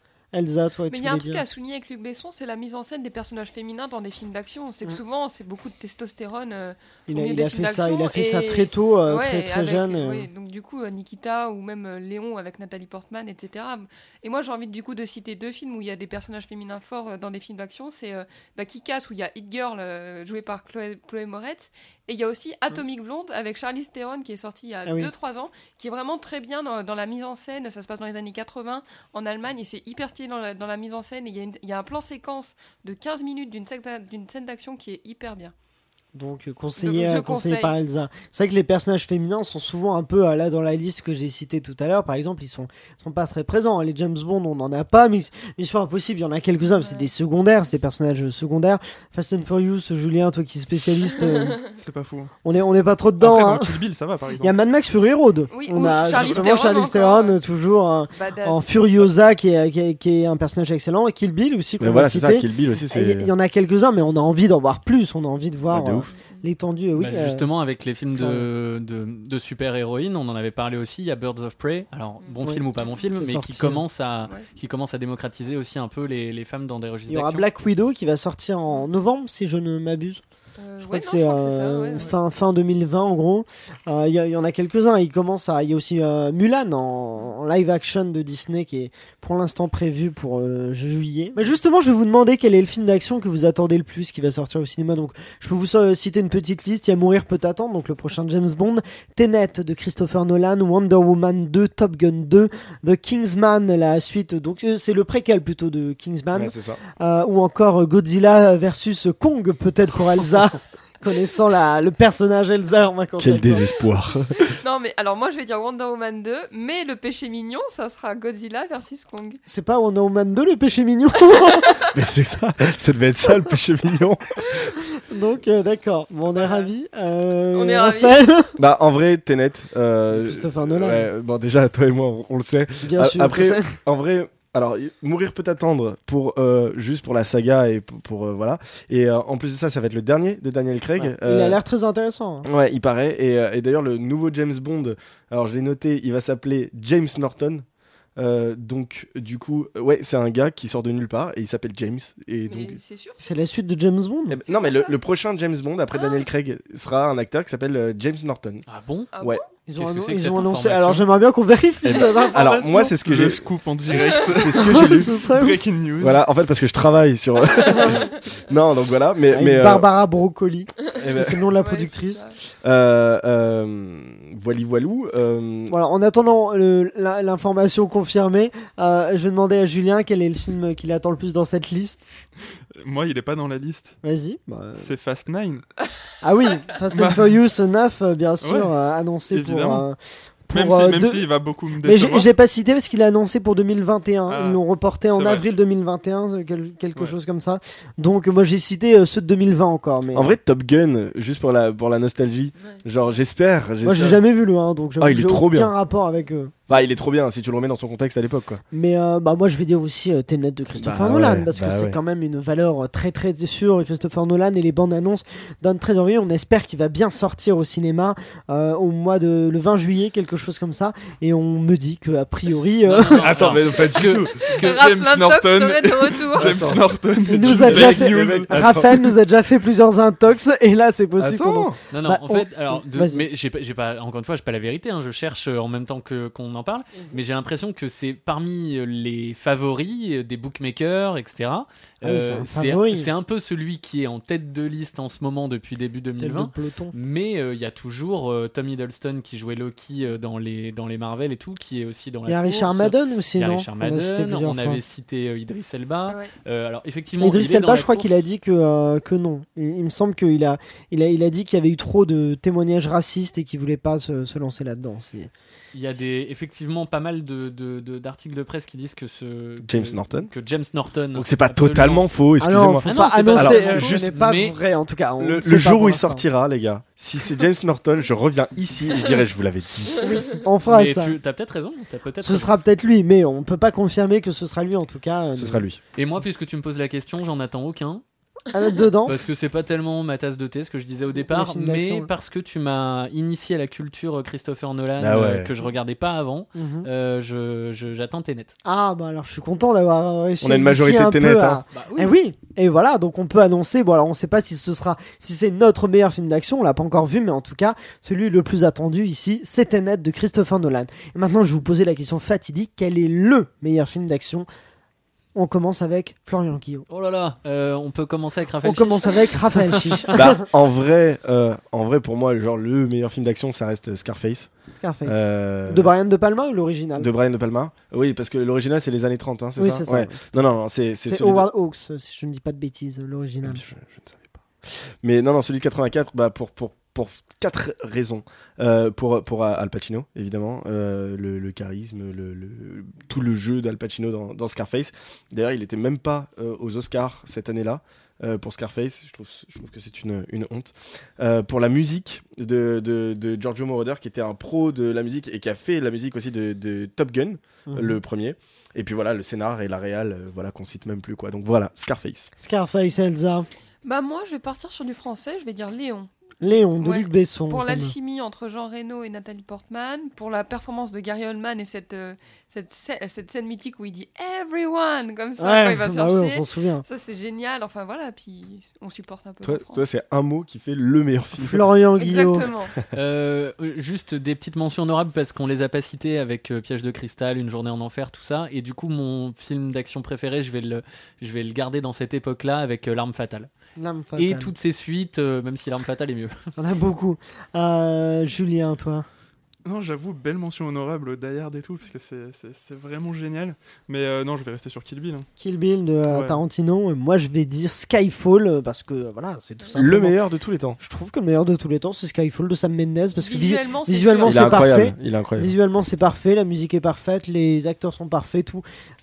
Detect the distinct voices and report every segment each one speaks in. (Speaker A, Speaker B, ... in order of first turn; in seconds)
Speaker A: 0.3-1.4, 7.1-10.3, 24.9-25.1, 36.1-51.6, 52.4-53.8, 54.4-67.4, 68.1-68.5, 72.4-73.8, 77.1-80.2, 80.8-113.6, 119.5-121.7, 125.0-128.6, 130.1-131.1, 132.8-133.7, 140.9-142.5, 153.2-154.4, 159.7-162.9, 164.5-165.6, 169.3-172.2, 175.7-182.0, 184.0-184.9, 186.2-191.3, 191.8-200.3, 203.8-206.5, 208.7-223.3, 227.2-233.2, 242.0-243.1, 246.2-246.9, 252.2-254.8, 257.2-265.3, 272.4-276.2, 280.0-281.1, 282.2-285.6, 288.5-289.2, 291.1-292.1, 296.5-296.9, 298.6-314.5, 315.3-316.9, 318.6-320.4, 324.7-327.1, 329.6-330.4, 331.1-333.6, 357.7-358.0, 362.4-363.5, 366.4-367.9, 375.4-376.8, 381.4-382.5, 393.8-394.5, 396.6-399.1, 405.4-410.2, 410.8-418.6
Speaker B: 0.9-35.5, 36.8-37.7, 46.6-47.1, 55.5-57.4, 58.1-58.7, 66.1-66.5, 72.2-73.0, 80.6-82.1, 114.6-119.4, 121.5-121.8, 126.3-126.7, 127.5-128.2, 152.4-153.2, 154.5-154.9, 155.9-156.2, 159.1-159.4, 167.7-168.0, 171.5-172.4, 224.5-226.7, 363.8-379.8, 382.0-382.7, 413.2-414.8
Speaker C: 51.8-52.3, 53.2-54.5, 163.0-166.2, 182.8-184.0, 184.8-185.6, 186.9-187.3, 188.4-188.7, 189.3-189.8, 190.5-192.3, 194.3-195.4, 223.1-228.9, 399.6-405.3, 406.1-406.4
Speaker D: 61.8-63.3, 65.7-66.1, 106.3-106.8, 113.2-114.6, 121.9-124.7, 128.6-141.6, 142.4-147.6, 148.2-152.8, 154.3-158.6, 161.8-165.2, 166.0-169.8, 170.9-171.5, 172.5-175.8, 200.1-204.2, 205.0-205.7, 206.7-208.6, 210.8-212.0, 223.3-224.1, 226.4-228.9, 231.2-231.8, 269.6-270.3, 271.1-274.1, 275.2-280.2, 285.4-285.8, 295.0-295.5, 300.4-301.6, 320.1-324.5, 325.1-325.9, 327.0-331.5, 333.4-362.3, 379.4-381.6, 409.8-410.8, 414.2-415.5
Speaker E: 67.0-77.4, 158.7-159.1, 159.7-161.1, 222.8-224.8, 231.9-258.2, 265.7-274.6, 280.6-282.5, 285.9-288.0, 289.1-298.5, 301.7-302.1, 316.9-320.1, 382.9-393.5, 394.2-396.3